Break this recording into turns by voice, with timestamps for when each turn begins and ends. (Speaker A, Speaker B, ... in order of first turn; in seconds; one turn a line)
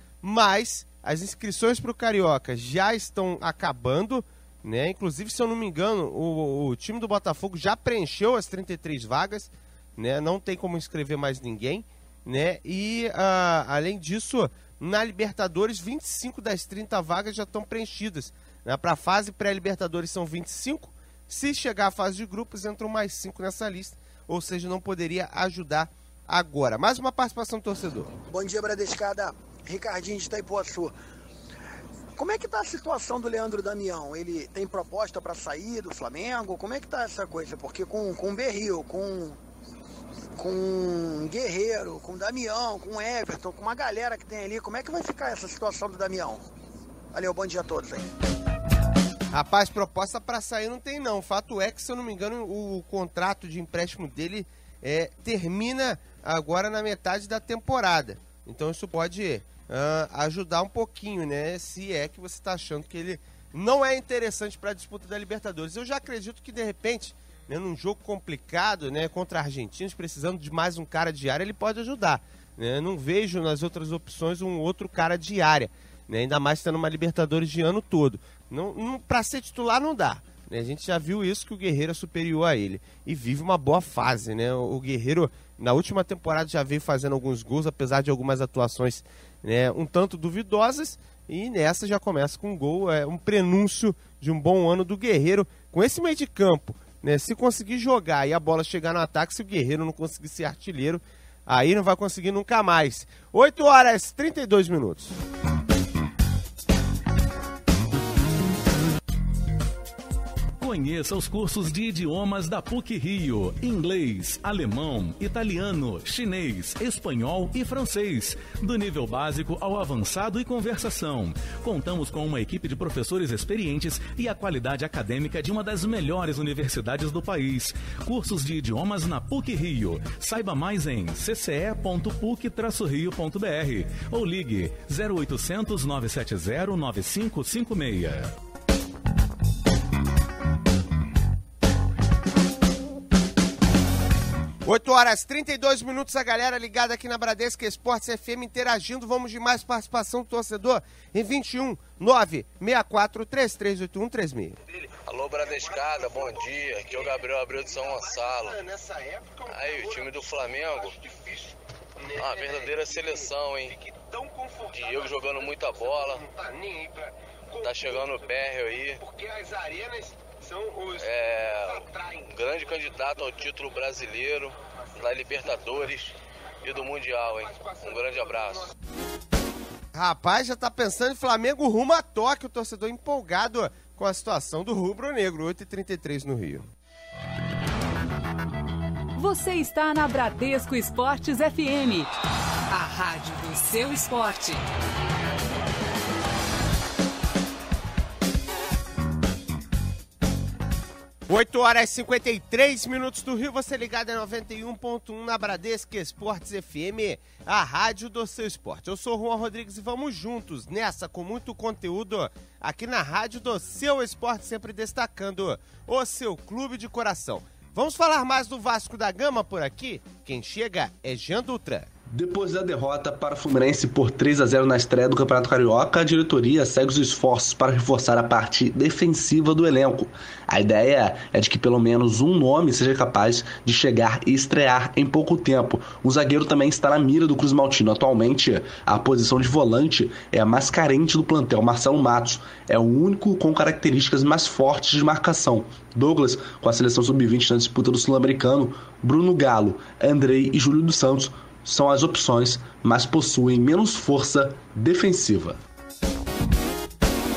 Speaker A: 0.2-28.1
Speaker B: 28.3-30.9
Speaker B: 32.2-39.4
Speaker B: 40.4-46.4
Speaker B: 47.1-48.0
Speaker A: 49.3-105.2
Speaker C: 110.6-138.3
Speaker A: 144.6-154.6
Speaker D: 155.0-158.6
Speaker A: 155.4-168.2
Speaker D: 159.5-160.9
Speaker D: 162.2-163.8
Speaker D: 164.7-166.2
Speaker D: 167.6-169.0
Speaker A: 169.0-172.3
Speaker D: 171.0-178.7
Speaker A: 177.5-178.7
Speaker A: 179.9-186.7
Speaker E: 189.2-192.1
Speaker E: 192.7-194.6
Speaker A: 201.3-221.9
Speaker F: 222.1-255.6